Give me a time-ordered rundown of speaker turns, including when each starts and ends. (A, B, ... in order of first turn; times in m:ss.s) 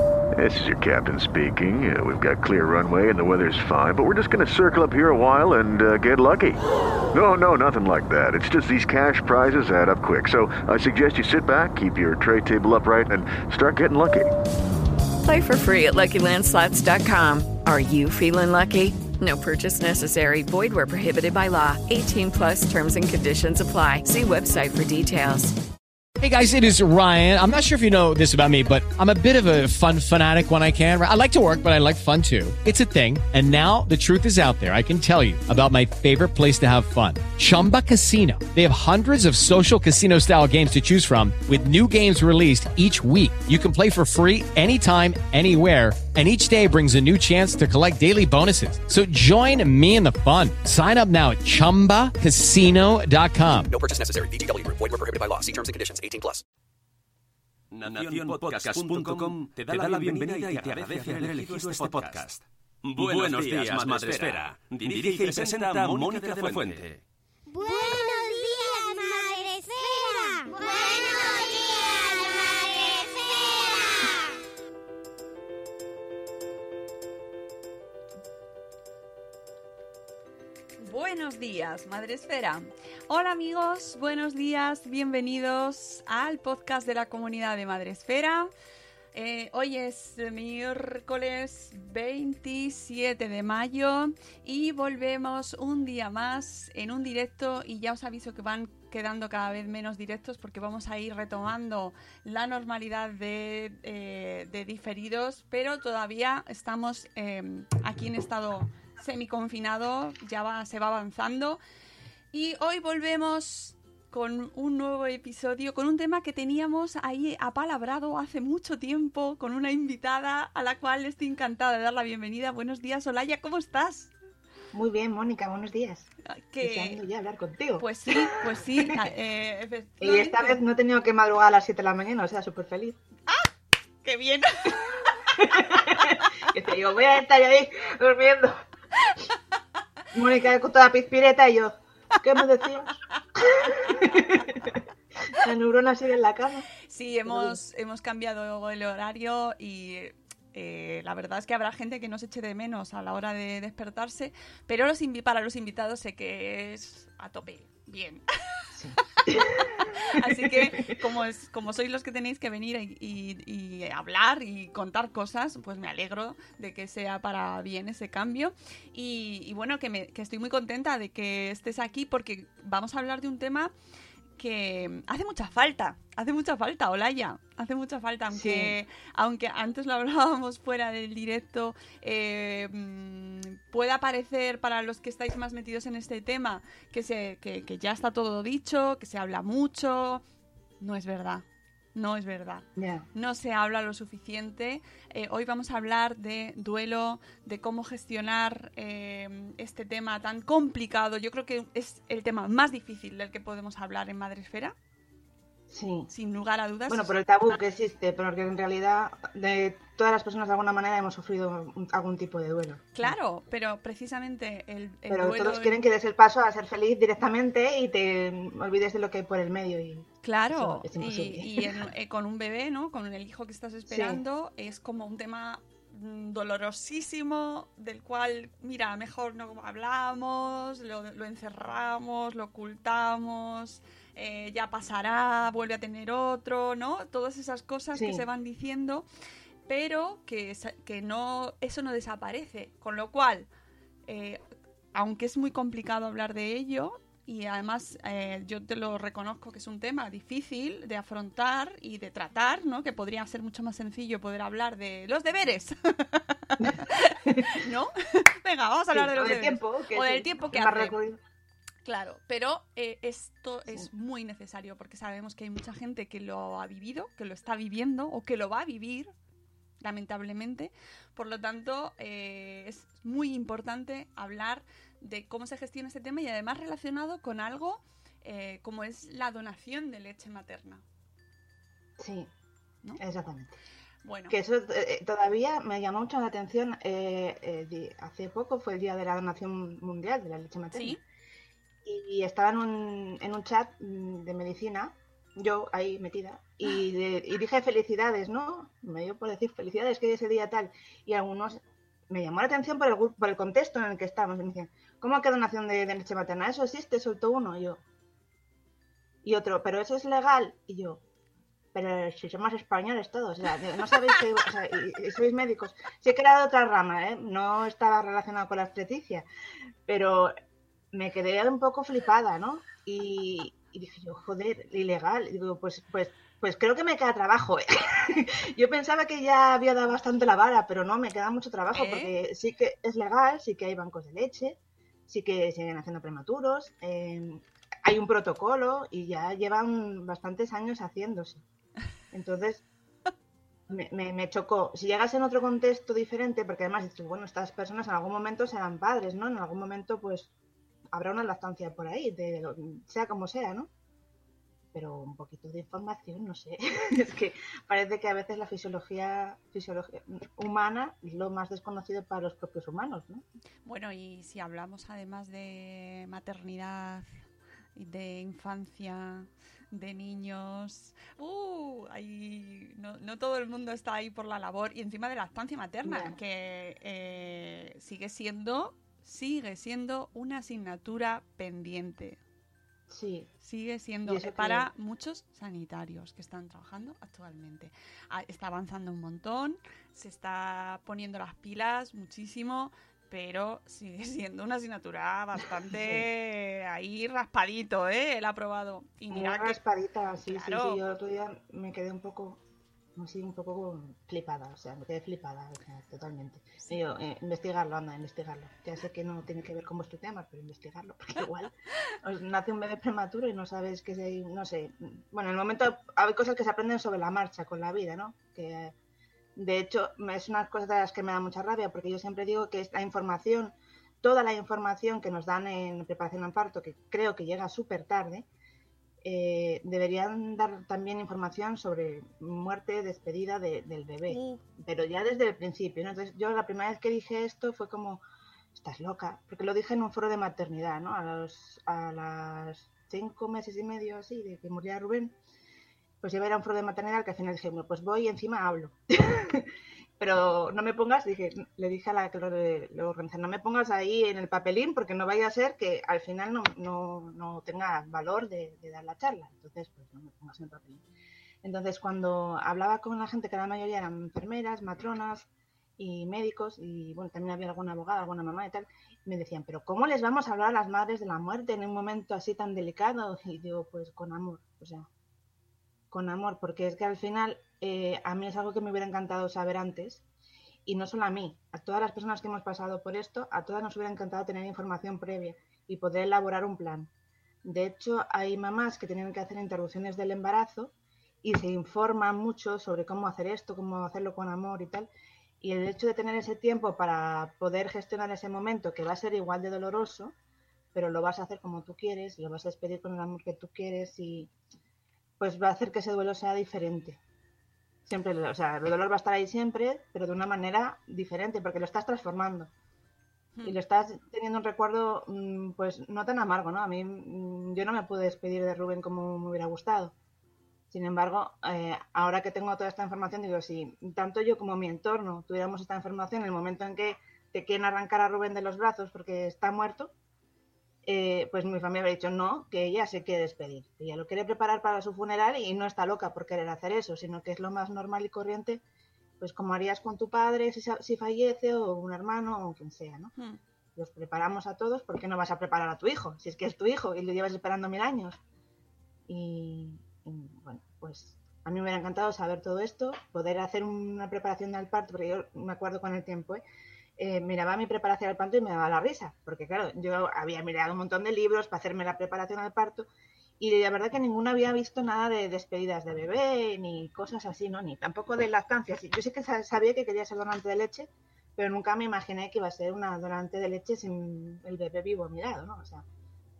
0:00.3-0:14.4 A
0:15.2-0:25.6 B
0:26.2-0:53.7 C
0:53.8-0:56.4 D
0:57.7-1:07.0 E
1:07.5-1:14.3 F
1:20.8-1:28.5 G
1:29.1-1:51.6 G
1:52.3-2:04.1 G
2:04.7-2:06.1 H
2:06.2-2:07.0 G
2:06.6-2:09.0 H
2:07.8-2:10.6 G
2:10.0-2:13.0 H
2:14.0-2:16.2 G
2:15.3-2:18.6 H
2:20.1-2:26.7 H
2:23.7-2:24.3 G
2:26.8-2:38.2 G
2:27.2-2:27.6 H
2:38.7-2:41.0 H
2:39.0-2:53.7 G
2:54.4-3:10.2 G
2:58.3-2:58.8 H
3:10.8-3:24.8 G
3:12.8-3:13.1 H
3:25.7-3:26.1 H
3:26.1-3:27.5 G
3:26.9-3:33.1 H
3:33.0-3:35.8 G
3:35.1-3:41.8 H
3:40.2-3:59.0 G
3:43.9-3:44.2 H
3:57.9-3:58.2 H
3:59.7-4:03.5 G
4:04.1-4:04.4 G
4:04.9-4:20.9 G
4:16.6-4:17.6 H
4:18.9-4:21.2 H
4:21.8-4:29.1 G
4:29.8-4:40.8 G
4:42.0-4:42.3 H
4:43.0-4:43.6 H
4:44.0-4:44.4 G
4:44.3-4:51.0 H
4:50.7-4:51.0 G
4:51.8-5:07.8 H
5:09.2-5:11.0 H
5:11.7-5:19.2 H
5:19.8-5:20.3 H
5:20.9-5:41.4 H
5:31.7-5:32.1 G
5:42.1-5:42.6 H
5:43.7-5:50.3 H
5:50.9-5:53.7 H
5:54.7-6:03.2 H
6:03.6-6:07.0 G
6:07.7-6:22.2 G
6:15.8-6:16.2 H
6:22.9-6:23.3 H
6:23.4-6:39.6 G
6:24.0-6:24.7 H
6:35.7-6:36.0 H
6:39.1-6:42.4 H
6:40.3-6:40.8 G
6:43.0-6:58.7 H
6:59.4-7:08.2 H
7:09.0-7:18.0 H
7:14.1-7:14.4 G
7:18.5-7:25.2 H
7:26.0-7:40.8 H
7:41.4-7:54.9 H
7:55.9-8:00.0 H
8:00.6-8:06.9 H
8:07.4-8:14.9 H
8:15.4-8:20.1 H
8:20.7-8:24.3 H
8:25.2-8:27.0 H
8:27.9-8:32.5 H
8:33.4-8:39.9 H
8:40.7-8:49.9 H
8:50.8-8:58.6 H
8:59.2-9:03.1 H
9:03.8-9:08.2 H
9:09.1-9:16.4 H
9:17.0-9:35.8 H